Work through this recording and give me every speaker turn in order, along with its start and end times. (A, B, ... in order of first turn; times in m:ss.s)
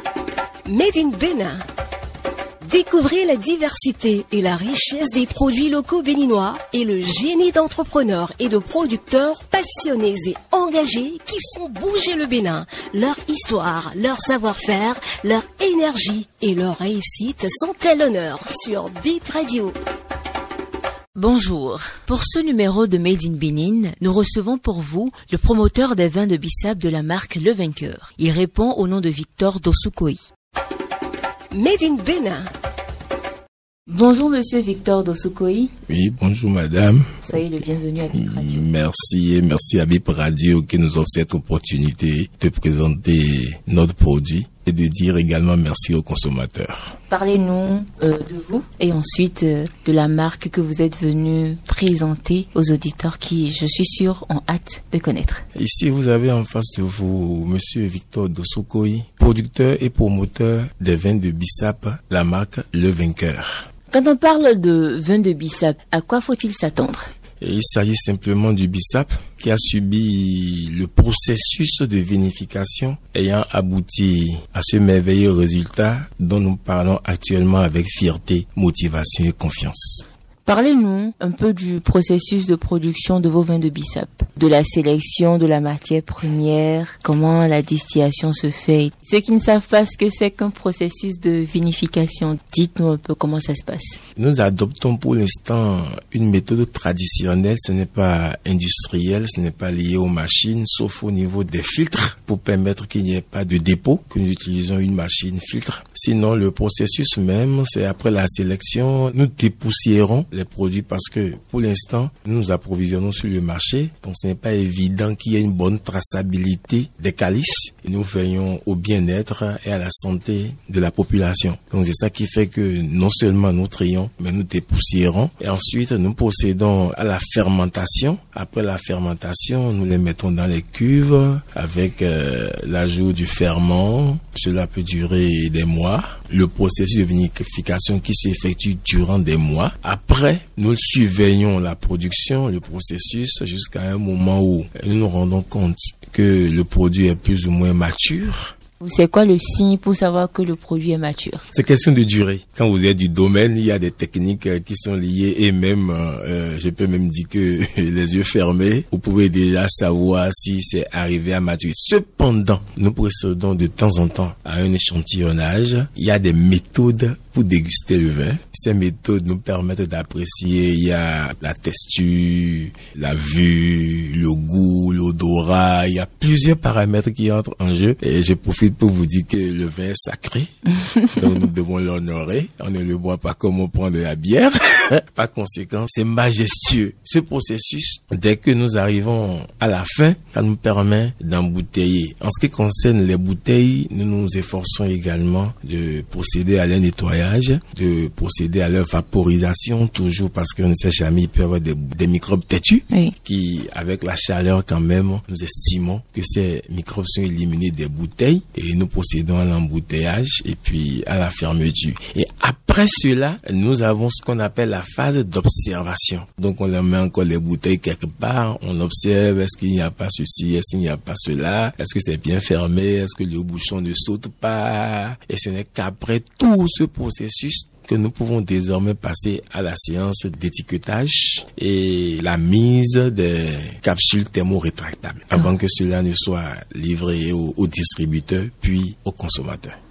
0:00.6-0:01.6 A
0:02.6-0:19.7 A
0:21.2-0:30.2 B
0:31.5-0:32.5 A
0:33.9-0:35.7 B
0:35.9-0:37.2 C
0:37.2-0:38.7 B
0:38.1-0:47.0 C
0:47.1-0:55.4 B
0:55.5-1:03.7 C
1:03.9-1:07.1 B
1:07.4-1:20.0 C
1:20.4-1:34.0 B
1:34.2-2:28.5 C
2:28.8-2:31.4 B
2:31.5-3:59.8 C